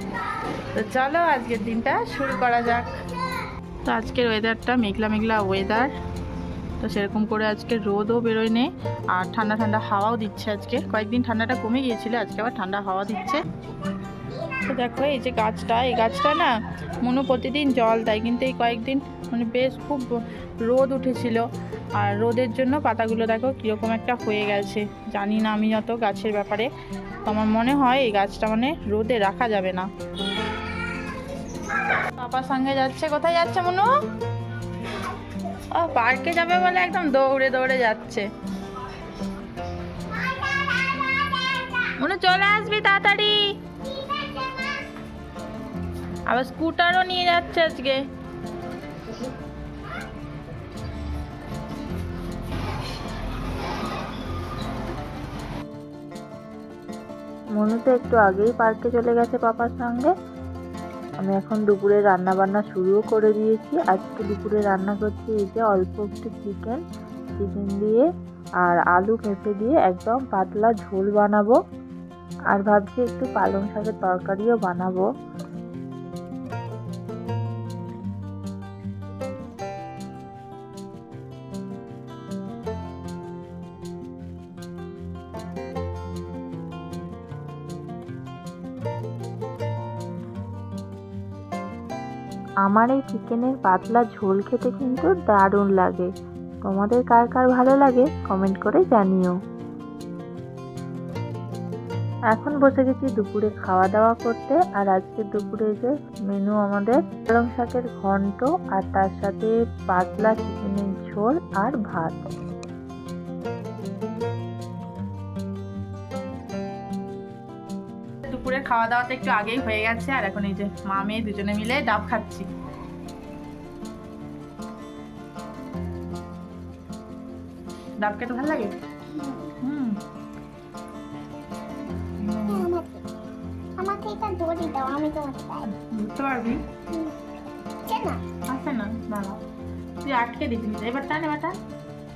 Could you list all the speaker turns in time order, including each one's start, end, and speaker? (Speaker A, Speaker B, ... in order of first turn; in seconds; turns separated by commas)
Speaker A: 0.8-2.9, Speaker A: 3.9-5.9, Speaker A: 6.8-13.4, Speaker A: 14.7-20.1, Speaker A: 20.7-21.4, Speaker A: 22.0-26.7, Speaker A: 27.2-29.9, Speaker A: 32.0-33.9, Speaker A: 35.8-38.3, Speaker B: 40.2-40.8, Speaker A: 42.0-43.4, Speaker B: 44.0-44.5, Speaker A: 46.3-48.0, Speaker C: 57.6-60.1, Speaker A: 59.1-59.5, Speaker C: 61.3-66.8, Speaker C: 67.5-68.0, Speaker C: 68.7-71.5, Speaker C: 72.5-75.0, Speaker A: 74.6-75.0, Speaker C: 92.7-96.1, Speaker C: 96.7-99.3, Speaker C: 102.4-112.1, Speaker A: 118.3-122.5, Speaker A: 128.0-128.7, Speaker B: 129.1-129.5, Speaker A: 129.6-130.0, Speaker A: 132.2-132.7, Speaker B: 132.5-133.0, Speaker B: 133.8-135.7, Speaker A: 135.7-136.6, Speaker B: 136.9-137.2, Speaker B: 137.9-138.2, Speaker A: 138.5-139.4, Speaker A: 140.0-141.6